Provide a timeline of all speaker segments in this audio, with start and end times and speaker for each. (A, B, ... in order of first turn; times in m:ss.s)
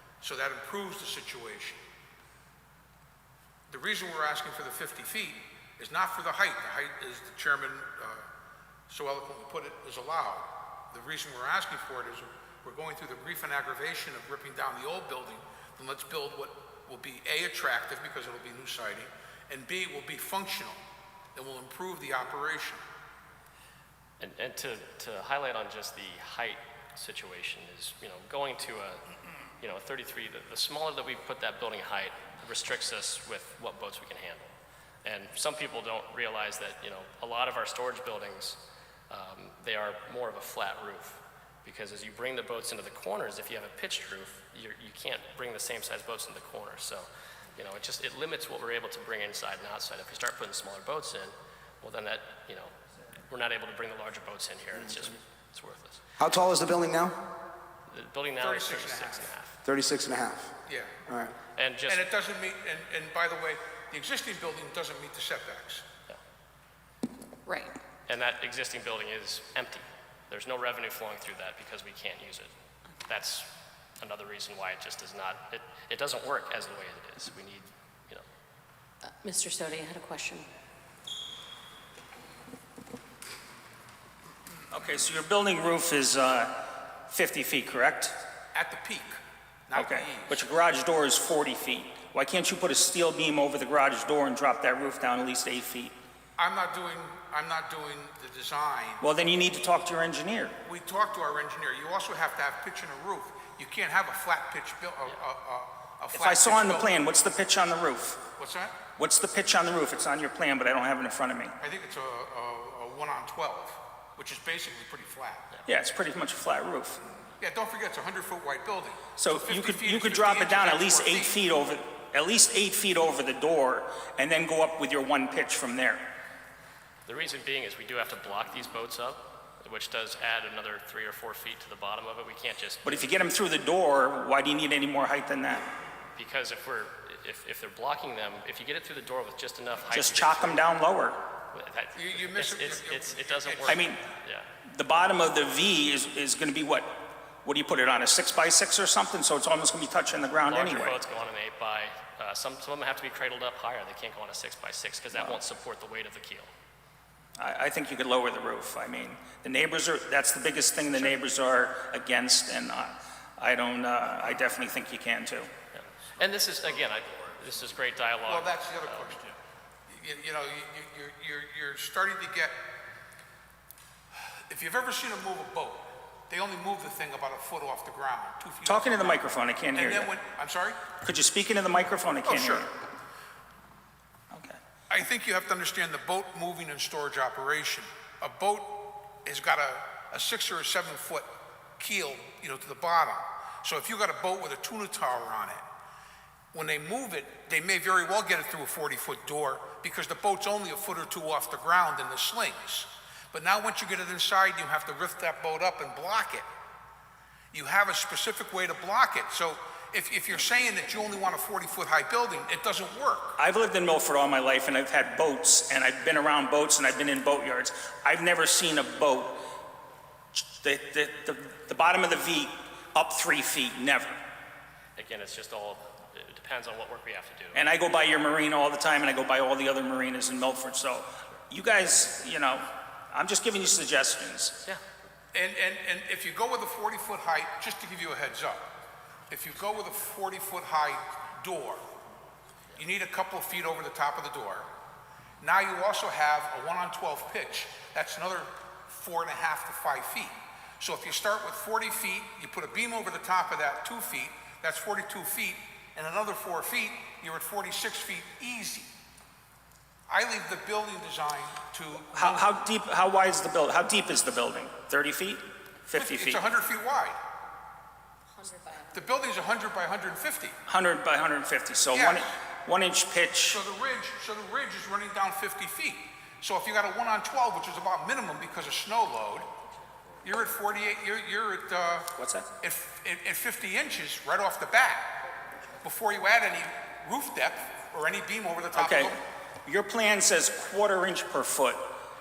0:00.2-0:01.8 A
0:03.7-0:08.3 A
0:08.9-0:20.8 A
0:21.3-0:22.8 A
0:24.2-0:29.0 B
0:29.6-0:34.5 B
0:35.0-0:52.7 B
0:53.3-0:56.0 B
0:56.2-0:57.2 C
0:57.9-0:59.6 B
0:58.4-0:59.3 A
0:59.6-1:00.5 C
1:00.6-1:01.0 A
1:01.0-1:01.3 C
1:01.6-1:02.0 B
1:01.9-1:05.8 A
1:07.4-1:07.8 D
1:08.1-1:12.5 B
1:13.0-1:13.5 B
1:14.0-1:18.2 B
1:19.1-1:20.5 D
1:24.7-1:26.5 E
1:27.1-1:28.2 E
1:28.5-1:30.5 A
1:29.7-1:35.9 E
1:36.4-1:39.0 A
1:39.0-1:40.6 E
1:40.6-1:47.4 A
1:46.1-1:48.2 E
1:48.4-1:48.8 A
1:49.0-1:51.5 E
1:51.6-1:55.5 A
1:55.7-1:57.0 E
1:57.4-2:01.4 A
1:59.2-2:06.0 E
2:07.0-2:13.0 B
2:12.8-2:15.7 E
2:16.2-2:20.6 B
2:19.9-2:21.2 E
2:21.5-2:24.5 B
2:21.9-2:24.0 A
2:23.7-2:24.0 E
2:24.6-2:31.0 E
2:30.4-2:36.5 B
2:35.1-2:35.4 E
2:37.4-2:45.5 E
2:45.7-2:49.2 B
2:48.2-2:49.2 A
2:49.9-2:52.6 A
2:54.5-3:00.8 A
2:58.6-3:00.1 E
3:01.0-3:02.7 E
3:02.2-3:02.7 A
3:04.3-3:04.6 E
3:04.9-3:15.6 A
3:16.5-3:26.4 A
3:27.5-3:33.4 A
3:33.4-3:39.4 E
3:40.3-3:44.2 E
3:45.0-3:47.6 B
3:47.5-3:54.6 E
3:55.3-3:58.7 A
3:59.3-4:01.8 A
4:02.7-4:04.7 A
4:05.4-4:18.9 A
4:20.1-4:22.5 A
4:22.1-4:26.4 E
4:25.9-4:27.2 A
4:28.4-4:29.0 D
4:28.8-4:30.6 A
4:30.7-4:33.6 E
4:31.9-4:32.4 A
4:33.5-4:39.5 A
4:40.2-4:42.1 A
4:42.2-4:42.4 E
4:42.6-4:45.2 A
4:45.8-4:49.2 A
4:48.7-4:51.8 E